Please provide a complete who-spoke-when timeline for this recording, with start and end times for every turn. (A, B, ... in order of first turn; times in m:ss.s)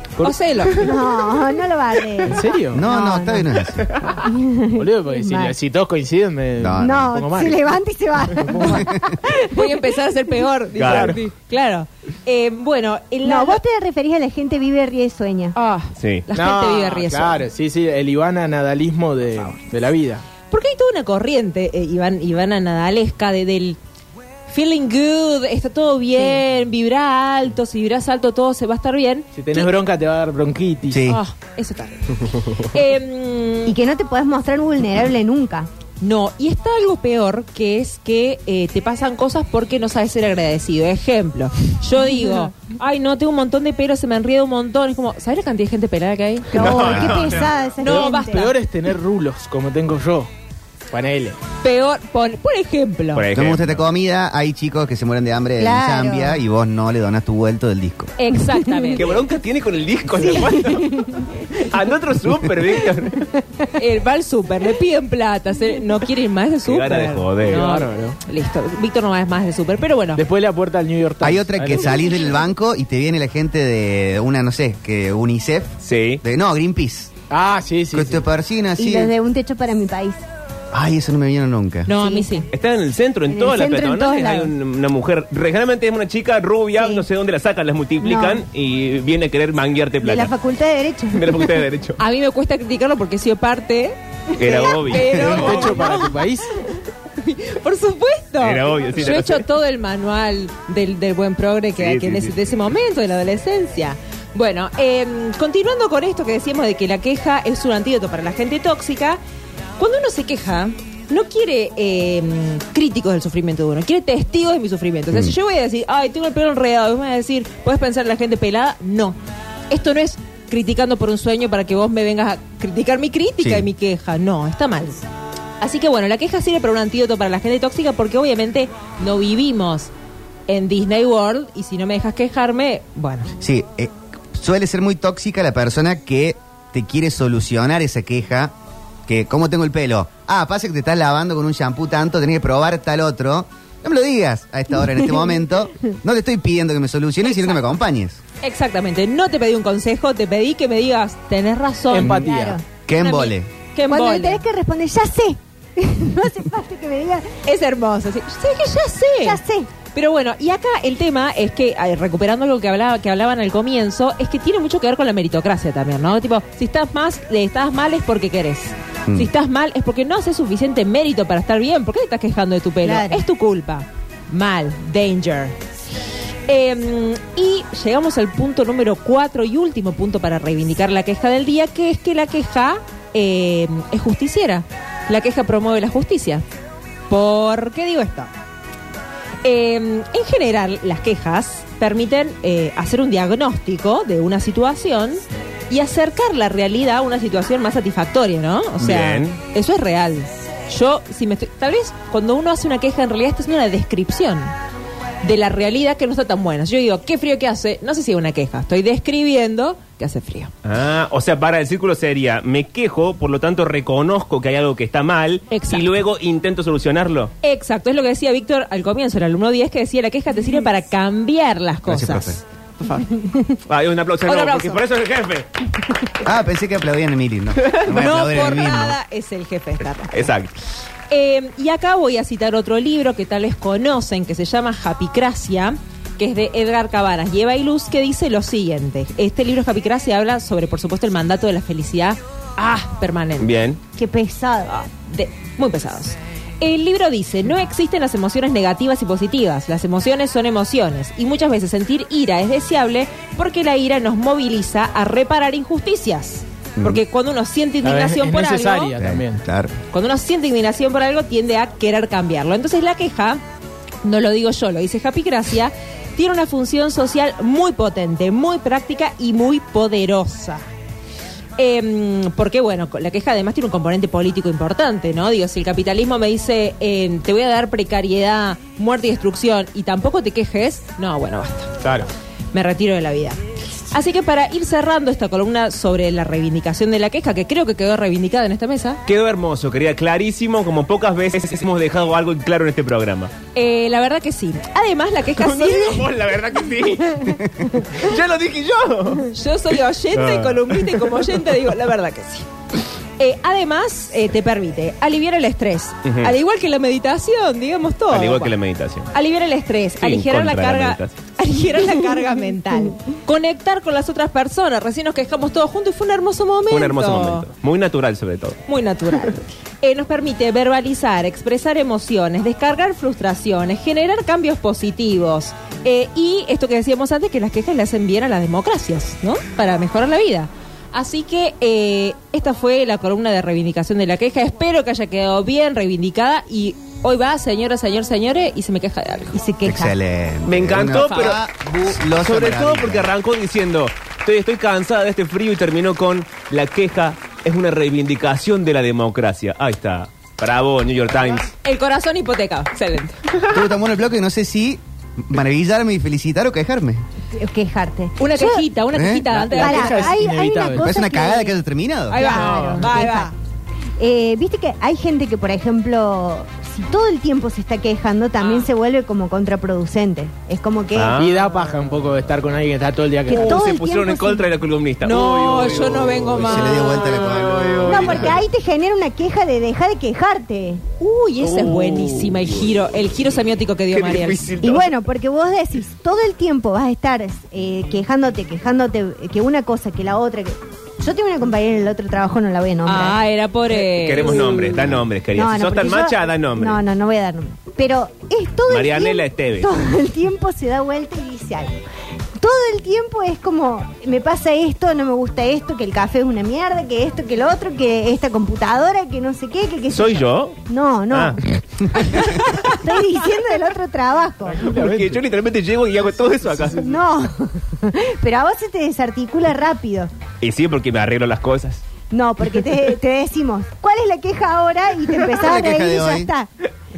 0:00.2-0:00.9 A
0:00.8-0:03.6 B
0:02.2-0:02.8 C
0:02.7-0:03.9 D
0:04.2-0:05.5 B
0:04.7-0:07.6 C
0:06.6-0:07.2 D
0:06.8-0:09.9 B
0:08.4-0:08.8 C
0:08.6-0:09.2 D
0:09.5-0:13.6 A
0:10.8-0:11.2 E
0:10.8-0:11.2 C
0:13.2-0:15.5 B
0:15.5-0:17.4 A
0:16.0-0:16.2 E
0:16.3-0:20.2 C
0:20.5-0:23.8 A
0:24.5-0:29.7 A
0:29.4-0:31.1 C
0:30.9-0:31.2 D
0:31.1-0:33.7 A
0:33.6-0:35.7 B
0:36.0-0:46.9 A
0:42.0-0:42.5 B
0:46.5-0:48.5 B
0:46.5-0:47.5 E
0:46.9-0:47.2 D
0:47.8-0:48.5 A
0:47.8-0:50.3 C
0:50.9-0:51.4 C
0:51.6-0:53.2 A
0:53.2-0:53.8 E
0:53.3-0:58.1 D
0:55.6-0:56.4 B
0:58.2-0:59.1 A
0:58.5-0:59.0 B
0:59.0-1:03.3 E
1:00.2-1:01.2 B
1:03.8-1:10.2 A
1:06.6-1:07.6 E
1:07.4-1:08.2 C
1:10.1-1:12.0 C
1:11.2-1:17.1 D
1:15.8-1:16.2 E
1:17.3-1:18.2 C
1:17.9-1:19.1 D
1:18.8-1:20.2 B
1:20.7-1:21.9 D
1:21.8-1:22.5 A
1:21.9-1:22.4 B
1:22.5-1:30.3 E
1:23.3-1:24.5 B
1:26.8-1:27.0 B
1:28.0-1:28.4 B
1:30.0-1:31.6 B
1:31.1-1:32.0 E
1:32.0-1:36.2 A
1:34.4-1:35.7 E
1:34.4-1:34.9 B
1:35.1-1:36.5 C
1:37.2-1:49.2 A
1:38.4-1:39.4 E
1:41.8-1:42.3 E
1:49.8-1:59.2 A
1:59.7-2:05.0 A
2:03.4-2:03.7 D
2:05.6-2:09.9 A
2:10.5-2:13.3 A
2:13.4-2:18.5 D
2:19.0-2:28.2 D
2:25.0-2:25.3 B
2:27.3-2:27.6 A
2:28.4-2:32.2 A
2:31.9-2:32.6 C
2:32.0-2:32.6 B
2:32.9-2:33.5 D
2:32.9-2:34.4 A
2:33.9-2:37.3 B
2:37.4-2:39.4 A
2:39.2-2:39.7 B
2:39.9-2:55.6 A
2:52.8-2:53.2 B
2:56.5-3:06.4 A
3:07.1-3:08.3 A
3:09.4-3:24.5 A
3:18.8-3:19.4 E
3:25.2-3:30.5 A
3:30.6-3:37.3 E
3:35.5-3:35.8 A
3:37.4-3:43.0 A
3:41.8-3:42.4 D
3:43.7-3:45.5 E
3:44.2-3:44.8 A
3:46.2-3:49.0 D
3:47.6-3:47.8 E
3:47.9-3:50.3 A
3:50.1-3:50.5 E
3:51.1-4:03.5 A
4:03.4-4:03.8 E
4:04.0-4:04.7 B
4:04.6-4:18.9 A
4:17.8-4:19.4 C
4:19.0-4:19.7 D
4:19.9-4:23.4 A
4:24.0-4:30.7 A
4:31.6-4:41.7 A
4:41.8-4:42.1 E
4:42.5-4:43.4 A
4:43.9-4:49.0 A
4:49.0-4:53.3 E
4:53.5-4:56.1 A
4:55.4-4:59.3 E
4:59.3-5:02.5 A
5:00.1-5:01.2 E
5:03.2-5:08.6 A
5:06.0-5:06.3 E
5:08.1-5:09.1 E
5:09.1-5:17.5 A
5:10.0-5:11.2 E
5:16.7-5:18.6 E
5:18.7-5:39.4 A
5:39.3-5:40.0 B
5:39.6-5:43.1 D
5:40.4-5:41.4 E
5:40.9-5:41.3 A
5:42.1-5:51.5 E
5:51.6-5:53.2 A
5:53.3-5:53.6 E
5:53.5-5:57.0 D
5:57.3-5:58.6 B
5:58.2-6:00.1 A
5:58.9-5:59.2 D
5:59.3-6:00.9 C
5:59.6-6:01.5 B
6:00.7-6:02.2 D
6:02.1-6:03.3 A
6:02.1-6:03.3 B
6:02.2-6:02.9 E
6:04.0-6:11.2 B
6:08.4-6:08.7 A
6:10.9-6:11.4 E
6:11.2-6:13.6 C
6:13.3-6:14.5 B
6:13.3-6:18.4 E
6:15.0-6:17.1 A
6:16.4-6:18.3 D
6:17.8-6:20.8 B
6:21.0-6:24.4 A
6:21.4-6:22.5 E
6:23.9-6:24.9 E
6:24.6-6:33.2 B
6:32.8-6:34.8 A
6:33.7-6:36.8 E
6:34.2-6:41.8 B
6:38.7-6:39.7 E
6:42.4-6:54.7 B
6:49.9-6:50.6 E
6:51.1-6:51.4 E
6:54.6-6:55.2 C
6:54.6-6:56.8 E
6:56.8-7:00.1 B
7:00.4-7:01.8 E
7:02.1-7:06.5 B
7:05.3-7:06.3 D